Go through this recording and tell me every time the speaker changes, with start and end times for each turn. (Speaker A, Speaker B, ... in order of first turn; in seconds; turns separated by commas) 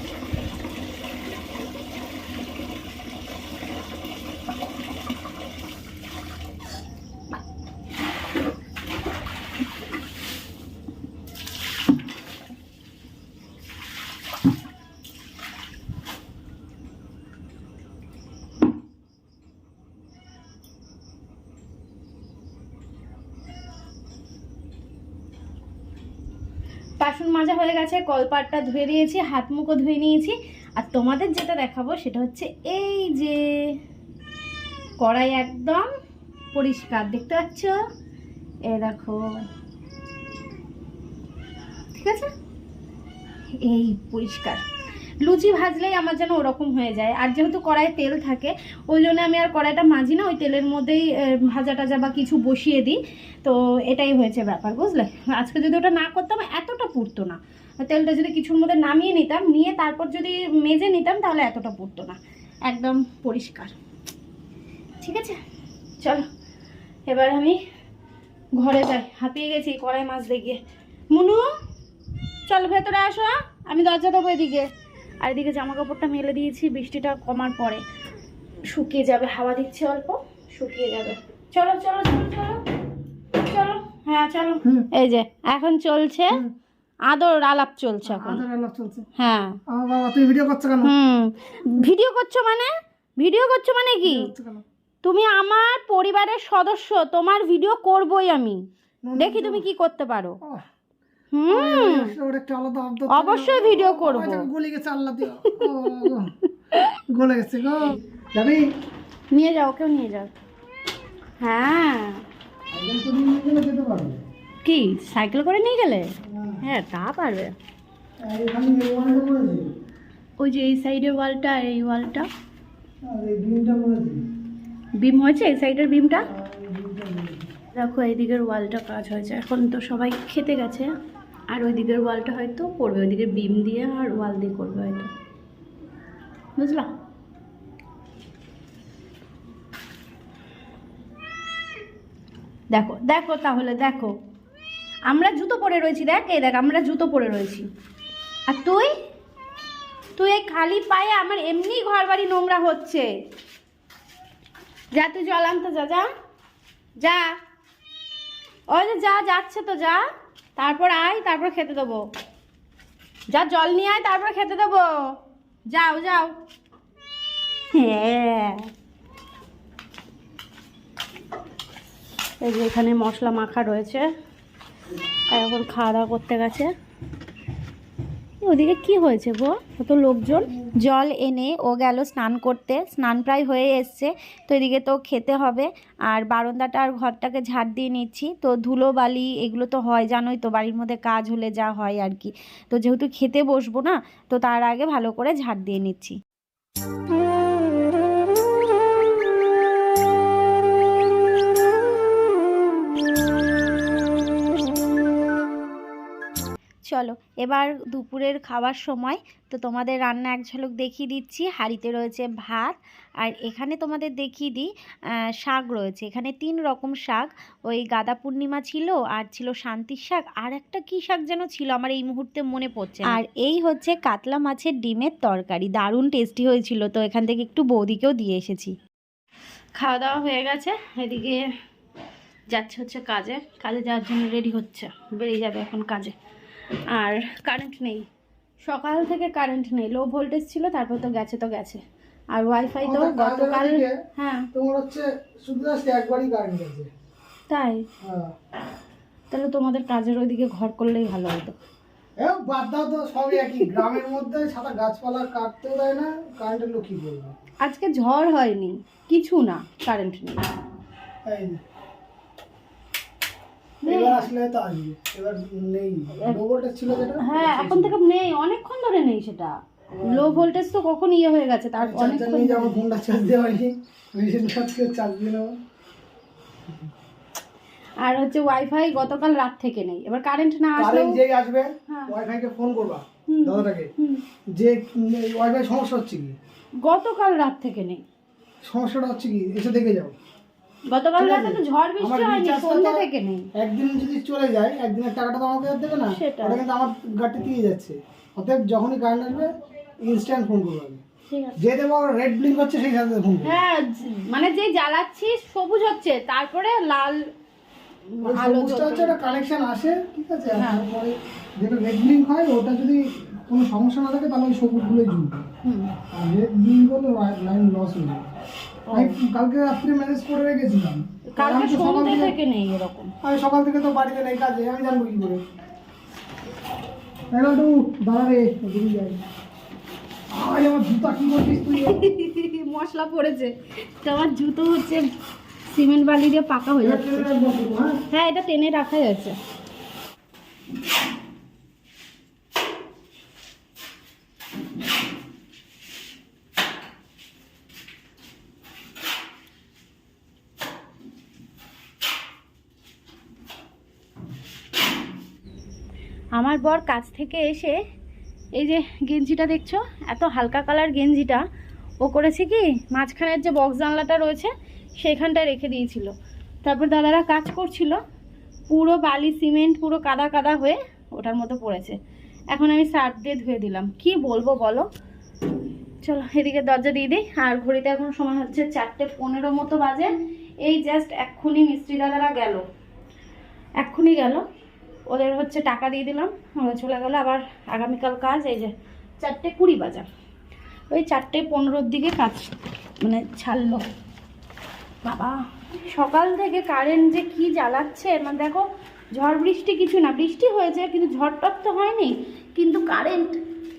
Speaker A: 27.0-33.7, Speaker A: 35.0-35.9, Speaker A: 36.5-37.8, Speaker A: 38.7-39.4, Speaker A: 41.9-42.3, Speaker A: 43.6-44.6, Speaker A: 45.2-63.7, Speaker A: 65.0-65.4, Speaker A: 67.1-67.6, Speaker A: 68.6-70.6, Speaker A: 71.1-71.5, Speaker A: 72.5-74.7, Speaker A: 75.2-77.8, Speaker A: 78.7-82.6, Speaker A: 83.4-86.4, Speaker A: 87.1-88.4, Speaker B: 88.0-89.0, Speaker A: 89.2-89.6, Speaker B: 89.7-90.9, Speaker A: 90.8-94.3, Speaker B: 94.0-94.6, Speaker A: 95.0-98.6, Speaker B: 99.0-99.7, Speaker A: 99.2-100.4, Speaker B: 100.4-100.7, Speaker A: 101.3-102.2, Speaker B: 101.5-106.3, Speaker A: 103.1-104.5, Speaker A: 105.5-106.1, Speaker B: 107.1-108.7, Speaker A: 109.3-110.3, Speaker A: 111.4-112.2, Speaker B: 112.7-114.2, Speaker A: 114.7-117.5, Speaker B: 116.2-116.6, Speaker B: 118.2-119.7, Speaker A: 120.4-122.3, Speaker B: 123.0-124.2, Speaker A: 125.0-126.3, Speaker B: 126.3-127.5, Speaker A: 127.7-130.9, Speaker A: 131.5-135.1, Speaker A: 136.6-136.9, Speaker A: 142.7-144.1, Speaker A: 145.1-147.7, Speaker A: 148.5-148.9, Speaker A: 150.2-153.1, Speaker A: 154.9-156.1, Speaker A: 157.0-157.3, Speaker A: 158.7-160.0, Speaker A: 160.6-162.0, Speaker A: 163.3-165.1, Speaker A: 165.7-166.3, Speaker A: 167.7-168.7, Speaker A: 172.4-174.1, Speaker A: 175.3-176.7, Speaker A: 178.4-180.5, Speaker C: 180.8-196.2, Speaker C: 206.9-214.7, Speaker C: 215.4-228.8, Speaker A: 229.8-231.5, Speaker A: 232.5-236.2, Speaker A: 236.9-238.1, Speaker A: 238.6-244.5, Speaker B: 242.8-244.0, Speaker B: 244.5-246.9, Speaker A: 247.5-247.9, Speaker B: 248.0-248.3, Speaker A: 249.3-251.6, Speaker B: 252.2-257.4, Speaker A: 257.6-260.4, Speaker B: 261.3-261.6, Speaker A: 263.8-264.3, Speaker B: 263.9-267.9, Speaker A: 267.2-272.8, Speaker B: 270.0-270.4, Speaker B: 271.8-275.6, Speaker A: 278.0-281.2, Speaker B: 280.8-283.9, Speaker A: 281.9-282.1, Speaker A: 283.3-284.2, Speaker B: 284.5-286.4, Speaker A: 286.8-288.0, Speaker B: 288.7-290.1, Speaker A: 290.9-293.5, Speaker B: 291.2-301.0, Speaker A: 296.1-296.6, Speaker A: 301.3-301.6, Speaker B: 301.6-303.6, Speaker A: 303.4-307.3, Speaker A: 308.1-309.2, Speaker B: 308.2-315.5, Speaker A: 310.6-310.8, Speaker A: 315.6-315.9, Speaker B: 316.1-318.3, Speaker A: 318.9-319.2, Speaker B: 318.9-322.3, Speaker A: 321.4-323.1, Speaker B: 323.2-325.4, Speaker B: 327.3-329.2, Speaker B: 330.3-332.0, Speaker A: 331.9-335.1, Speaker A: 335.7-337.3, Speaker B: 336.8-338.0, Speaker A: 338.1-339.4, Speaker A: 356.4-357.8, Speaker A: 358.6-361.4, Speaker A: 362.0-366.1, Speaker A: 366.6-368.0, Speaker A: 368.7-372.0, Speaker A: 372.5-374.9, Speaker A: 376.0-380.1, Speaker A: 380.6-382.6, Speaker A: 383.8-384.4, Speaker A: 385.1-390.1, Speaker A: 390.9-393.9, Speaker A: 395.1-403.4